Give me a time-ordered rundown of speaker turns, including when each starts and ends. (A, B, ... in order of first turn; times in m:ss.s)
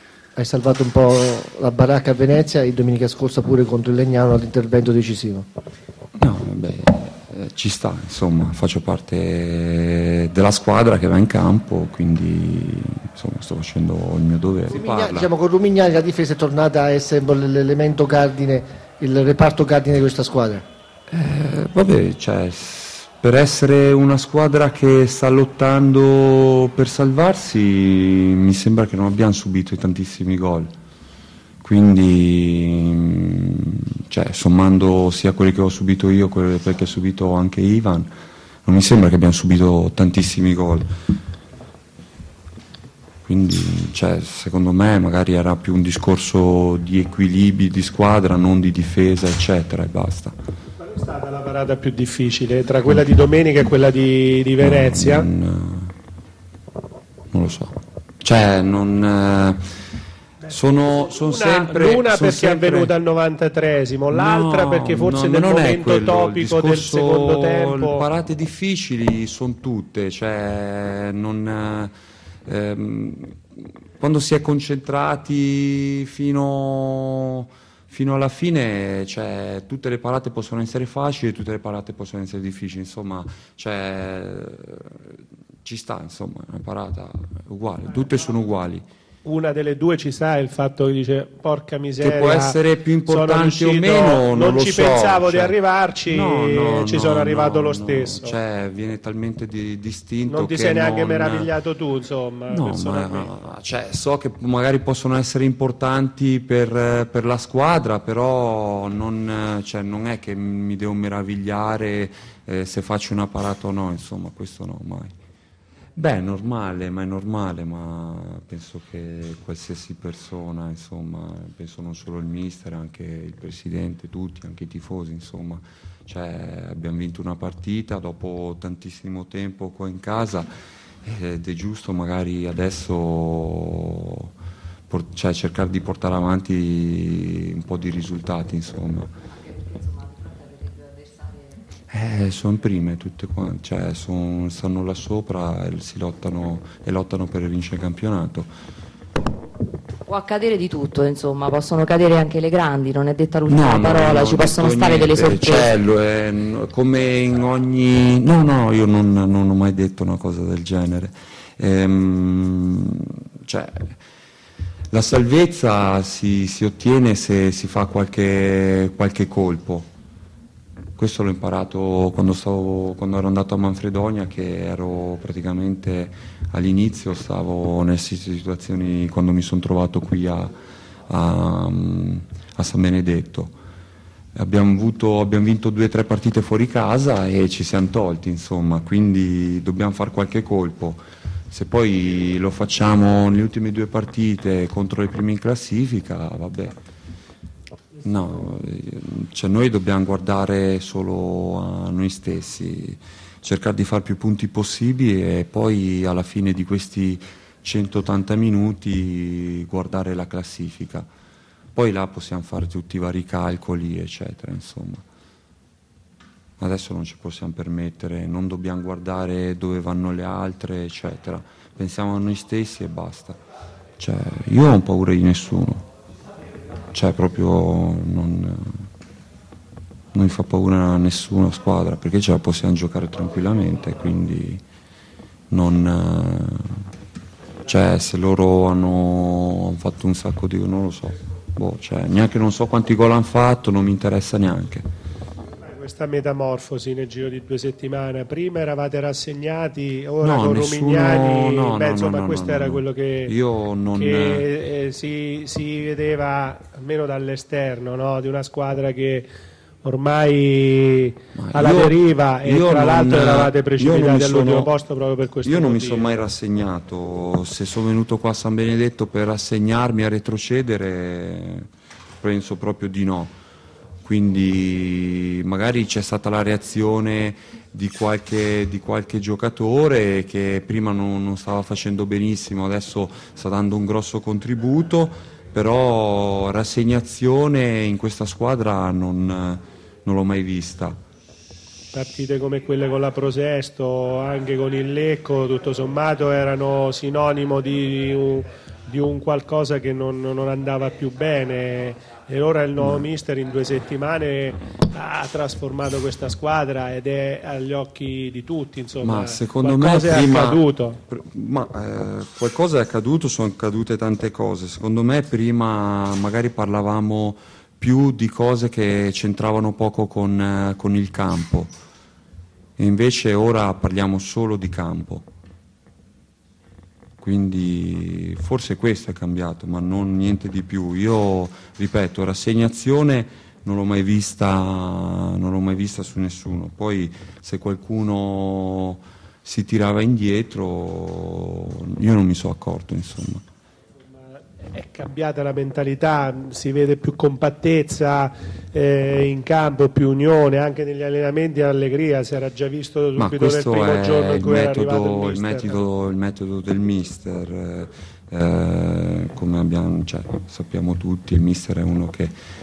0:00.4-0:05.4 A
0:06.2-0:15.3 B
0:14.7-0:20.6 A
0:21.1-0:30.7 B
0:31.6-0:38.1 B
0:38.6-0:40.9 B
0:43.2-0:50.3 B
0:50.8-0:55.3 C
0:54.6-0:55.9 B
0:57.3-0:59.6 B
1:00.5-1:02.9 B
1:00.9-1:08.0 C
1:04.1-1:11.9 B
1:12.4-1:28.8 B
1:29.2-1:38.3 C
1:32.0-1:35.6 B
1:36.1-1:41.5 B
1:40.3-1:43.3 C
1:42.5-1:55.1 B
1:56.0-2:10.5 B
2:11.0-2:14.3 B
2:14.9-2:19.1 B
2:19.4-2:21.6 D
2:21.9-2:28.5 B
2:30.0-2:35.7 D
2:33.5-2:43.9 B
2:44.9-2:49.9 B
2:51.0-3:00.5 B
3:01.1-3:03.5 B
3:04.4-3:16.8 B
3:18.0-3:31.1 B
3:31.7-3:35.0 B
3:36.6-3:43.4 B
3:44.0-3:45.8 B
3:46.9-3:48.8 B
3:50.1-3:54.6 B
3:55.5-3:56.9 B
3:57.6-4:04.8 B
4:05.7-4:13.3 C
4:10.2-4:14.5 B
4:14.0-4:19.3 C
4:19.8-4:26.2 C
4:21.3-4:24.7 B
4:25.4-4:31.7 B
4:32.2-4:33.4 B
4:34.0-4:51.0 B
4:51.9-5:11.0 C
5:02.8-5:03.1 B
5:09.0-5:21.7 B
5:22.8-5:25.2 B
5:27.2-5:43.4 B
5:44.3-5:55.8 C
5:53.2-6:02.3 B